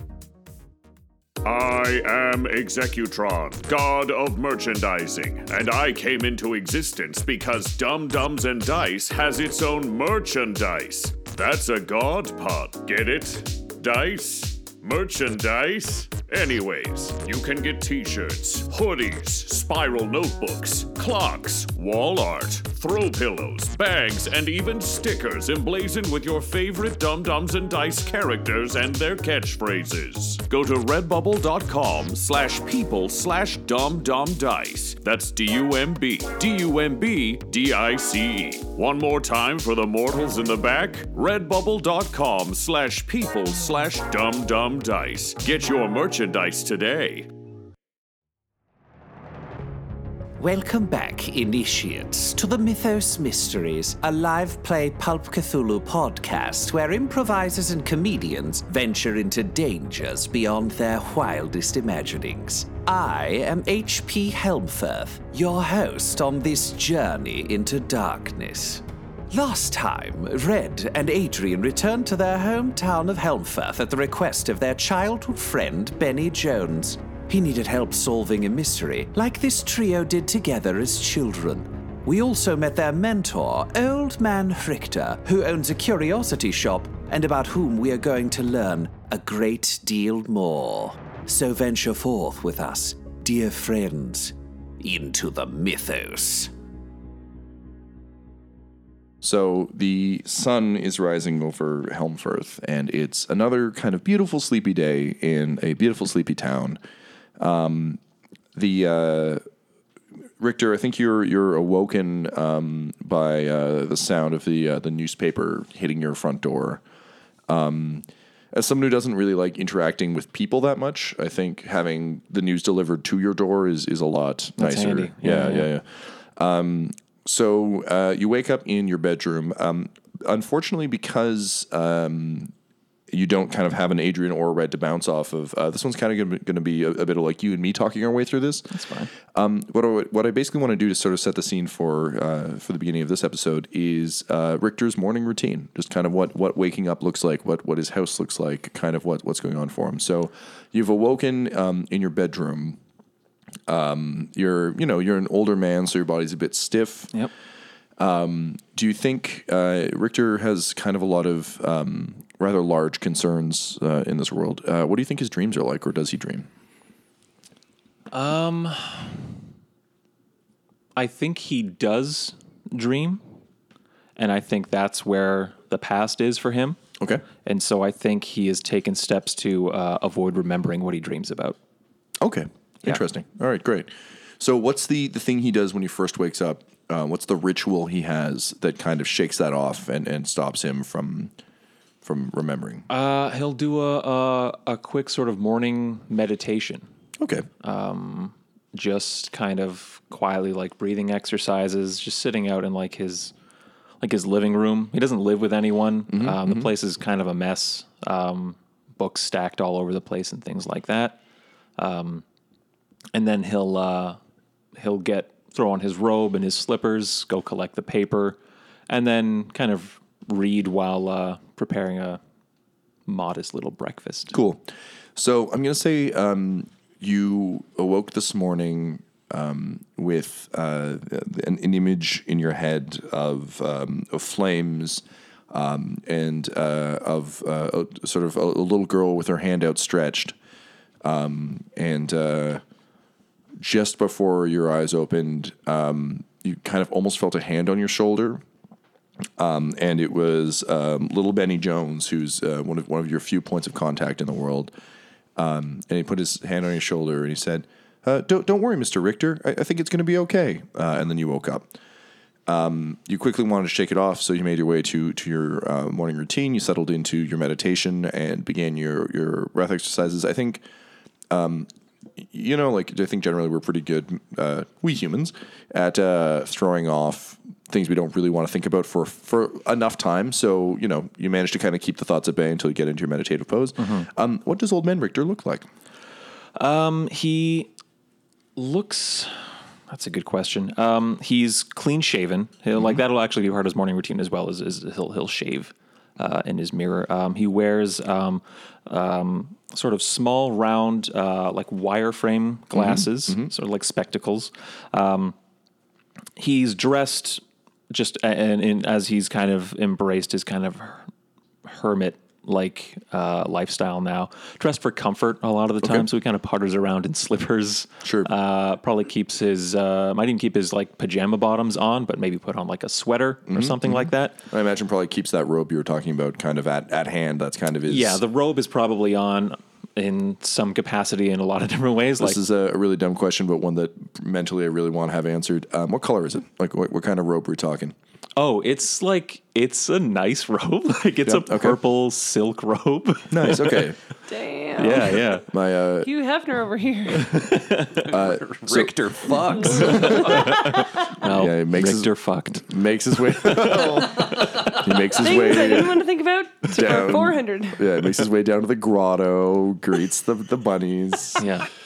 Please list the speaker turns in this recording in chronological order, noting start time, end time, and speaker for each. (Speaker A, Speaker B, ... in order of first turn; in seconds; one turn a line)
Speaker A: 1.4-47.3
Speaker B: 50.4-96.5
Speaker C: 99.2-106.8
Speaker C: 107.4-108.0
Speaker C: 108.5-109.4
Speaker C: 110.4-116.8
Speaker C: 117.5-132.5
Speaker D: 124.6-125.7
Speaker C: 133.1-152.8
Speaker D: 138.7-139.1
Speaker C: 153.7-157.2
Speaker C: 158.0-166.5
Speaker D: 168.1-169.3
Speaker D: 171.0-173.2
Speaker D: 174.2-176.8
Speaker C: 177.0-177.2
Speaker D: 177.4-181.6
Speaker C: 182.2-191.3
Speaker C: 192.0-192.9
Speaker D: 192.9-196.8
Speaker C: 197.2-197.5
Speaker D: 197.6-203.3
Speaker D: 204.0-211.2
Speaker C: 206.1-206.7
Speaker D: 211.8-212.2
Speaker D: 213.1-214.2
Speaker D: 214.8-218.4
Speaker D: 218.9-222.2
Speaker D: 223.1-224.4
Speaker C: 224.3-240.3
Speaker C: 241.0-242.6
Speaker C: 243.6-248.4
Speaker C: 249.4-254.7
Speaker C: 255.4-261.7
Speaker C: 262.5-270.6
Speaker C: 271.3-285.7
Speaker D: 283.8-284.1
Speaker D: 286.6-287.7
Speaker D: 288.6-305.4
Speaker C: 302.7-303.5
Speaker D: 306.4-311.1
Speaker D: 311.6-324.4
Speaker C: 318.0-318.3
Speaker C: 323.5-328.2
Speaker D: 327.9-332.4
Speaker C: 332.2-337.9
Speaker D: 338.4-343.9
Speaker C: 341.2-341.8
Speaker C: 343.3-344.0
Speaker E: 344.3-345.3
Speaker D: 344.8-345.5
Speaker C: 345.5-346.1
Speaker E: 346.0-347.4
Speaker D: 347.2-348.0
Speaker C: 348.0-350.6
Speaker B: 348.1-350.4
Speaker E: 349.5-350.8
Speaker D: 350.4-352.7
Speaker C: 351.2-352.1
Speaker C: 352.6-356.1
Speaker E: 355.2-357.9
Speaker C: 356.6-361.5
Speaker D: 361.4-361.7